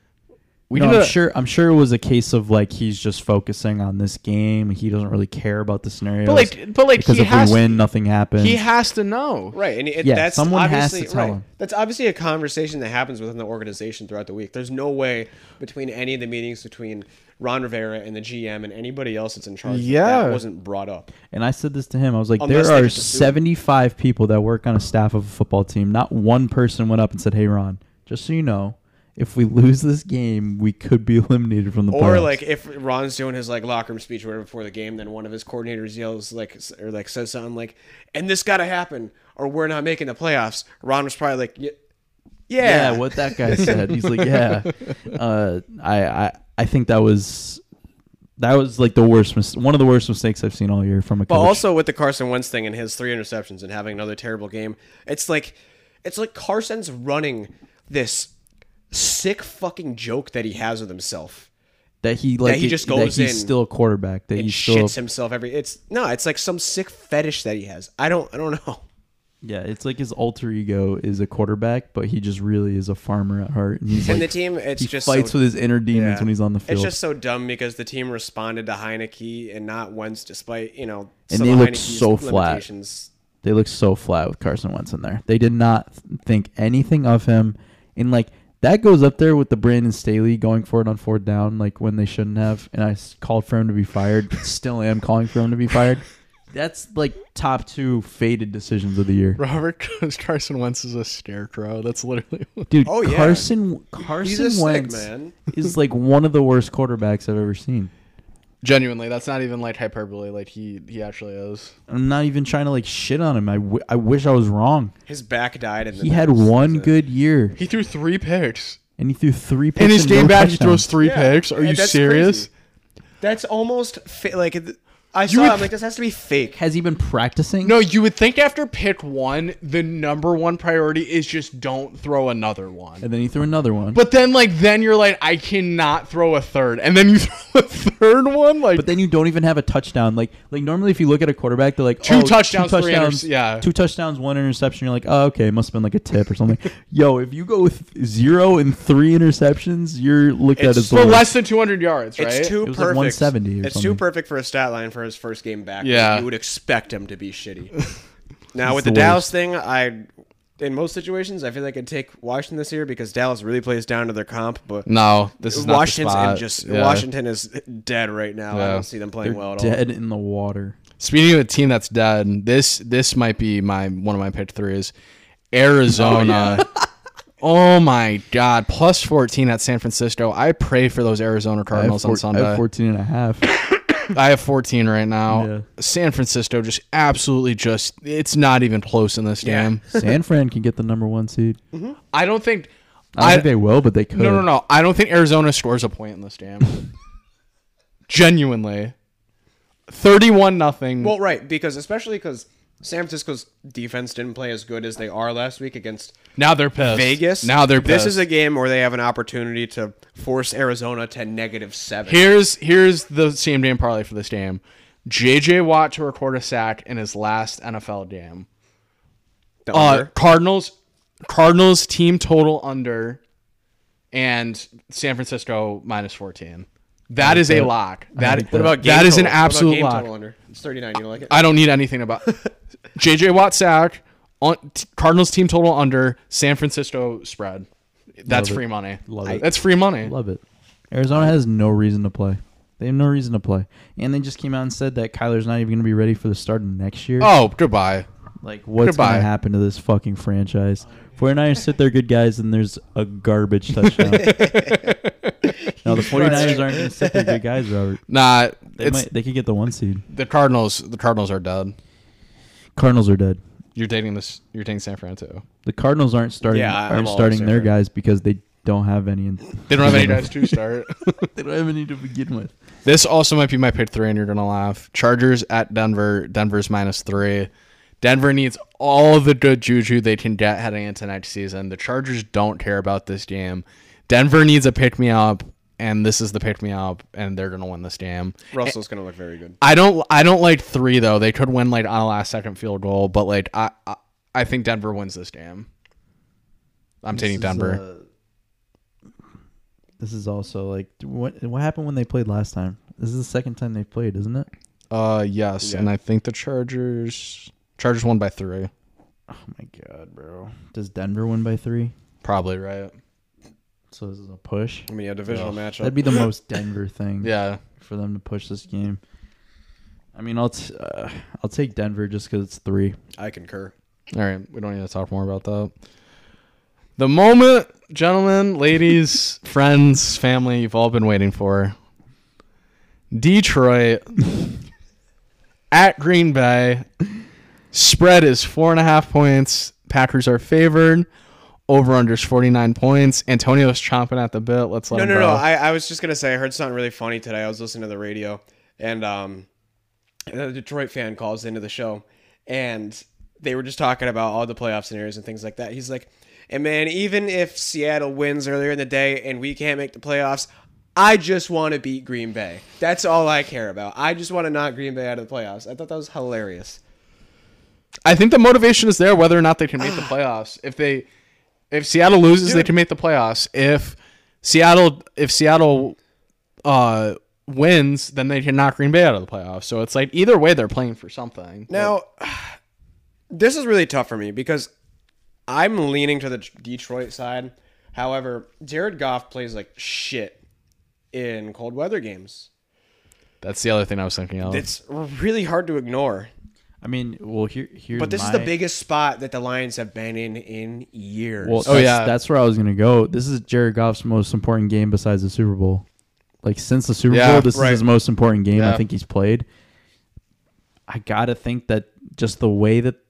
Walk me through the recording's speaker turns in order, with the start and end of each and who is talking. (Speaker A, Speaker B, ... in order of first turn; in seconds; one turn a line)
Speaker A: 0.7-1.1
Speaker B: 0.7-8.6
Speaker A: 6.2-7.8
Speaker A: 8.4-9.6
Speaker C: 9.5-21.1
Speaker B: 10.0-11.4
Speaker A: 19.6-20.4
Speaker B: 21.3-32.4
Speaker C: 22.4-23.3
Speaker C: 31.9-41.7
Speaker C: 42.5-43.9
Speaker B: 42.6-47.6
Speaker B: 48.4-51.6
Speaker C: 51.3-58.3
Speaker C: 58.9-61.5
Speaker B: 62.0-64.9
Speaker C: 62.4-63.5
Speaker C: 64.3-68.8
Speaker B: 69.4-76.9
Speaker C: 74.0-75.4
Speaker C: 75.9-83.1
Speaker B: 81.3-82.6
Speaker B: 83.4-99.4
Speaker A: 99.4-102.7
Speaker B: 102.7-107.9
Speaker C: 102.8-103.5
Speaker C: 104.1-105.3
Speaker A: 108.6-111.7
Speaker B: 111.9-114.9
Speaker C: 115.1-116.9
Speaker B: 116.0-117.6
Speaker A: 117.6-118.8
Speaker B: 119.0-120.9
Speaker A: 119.8-122.5
Speaker C: 121.0-122.5
Speaker C: 123.2-126.6
Speaker B: 126.5-127.8
Speaker A: 127.6-133.0
Speaker B: 133.0-134.0
Speaker A: 133.9-138.9
Speaker B: 138.7-151.3
Speaker A: 142.0-143.7
Speaker C: 150.6-151.2
Speaker A: 150.9-152.5
Speaker C: 152.2-157.7
Speaker B: 152.6-154.0
Speaker A: 155.8-156.2
Speaker C: 158.5-160.1
Speaker B: 158.6-159.3
Speaker C: 160.6-164.9
Speaker A: 164.8-167.1
Speaker C: 165.4-169.8
Speaker A: 168.5-168.9
Speaker B: 169.2-170.8
Speaker A: 171.0-174.9
Speaker A: 175.5-176.7
Speaker B: 175.9-176.6
Speaker C: 176.1-176.6
Speaker A: 177.4-182.6
Speaker B: 181.7-183.5
Speaker A: 184.1-189.8
Speaker B: 185.3-185.7
Speaker C: 189.4-190.1
Speaker B: 189.9-191.6
Speaker A: 192.1-193.5
Speaker B: 193.2-194.5
Speaker A: 194.1-196.8
Speaker A: 198.1-198.9
Speaker A: 199.9-201.1
Speaker C: 201.0-206.1
Speaker A: 206.4-208.2
Speaker C: 206.8-212.3
Speaker A: 212.1-218.5
Speaker C: 219.6-220.1
Speaker A: 219.7-223.2
Speaker A: 224.1-230.1
Speaker B: 227.2-228.8
Speaker C: 228.4-231.4
Speaker A: 231.3-232.4
Speaker A: 232.9-237.7
Speaker A: 238.2-240.1
Speaker B: 238.3-247.3
Speaker A: 247.2-248.1
Speaker B: 248.4-254.5
Speaker A: 248.8-249.3
Speaker A: 253.8-256.6
Speaker C: 254.3-254.8
Speaker C: 255.7-257.4
Speaker B: 255.8-258.0
Speaker A: 258.1-259.0
Speaker B: 258.8-260.0
Speaker A: 260.1-261.7
Speaker B: 262.8-263.4
Speaker A: 263.7-265.4
Speaker B: 265.6-270.6
Speaker C: 266.4-267.7
Speaker A: 269.7-271.3
Speaker B: 271.2-272.5
Speaker A: 272.8-277.5
Speaker A: 278.0-288.7
Speaker C: 288.5-289.6
Speaker A: 289.6-295.7
Speaker A: 297.0-297.8
Speaker B: 297.1-298.0
Speaker B: 300.0-304.5
Speaker A: 304.9-308.7
Speaker C: 305.6-305.9
Speaker B: 309.3-311.9
Speaker A: 312.2-312.9
Speaker B: 313.9-314.9
Speaker C: 314.9-316.3
Speaker A: 315.3-315.6
Speaker B: 315.8-319.0
Speaker A: 317.2-317.6
Speaker B: 320.1-323.0
Speaker C: 323.2-323.7
Speaker A: 324.1-325.7
Speaker A: 327.0-331.7
Speaker A: 333.1-334.2
Speaker A: 335.7-336.9
Speaker A: 337.7-341.1
Speaker A: 341.7-345.4
Speaker C: 344.9-349.5
Speaker C: 350.3-366.8
Speaker A: 368.0-371.1
Speaker A: 371.7-375.9
Speaker C: 372.4-372.7
Speaker A: 376.6-381.9
Speaker C: 381.7-382.5
Speaker C: 383.3-384.7
Speaker C: 385.5-390.4
Speaker C: 391.1-392.5
Speaker A: 393.4-394.6
Speaker C: 394.4-396.3
Speaker B: 396.8-398.5
Speaker C: 397.9-401.8
Speaker B: 401.4-405.8
Speaker A: 401.6-402.1
Speaker B: 406.4-409.4
Speaker A: 407.1-407.5
Speaker C: 407.5-407.8
Speaker A: 408.5-408.8
Speaker B: 410.9-413.0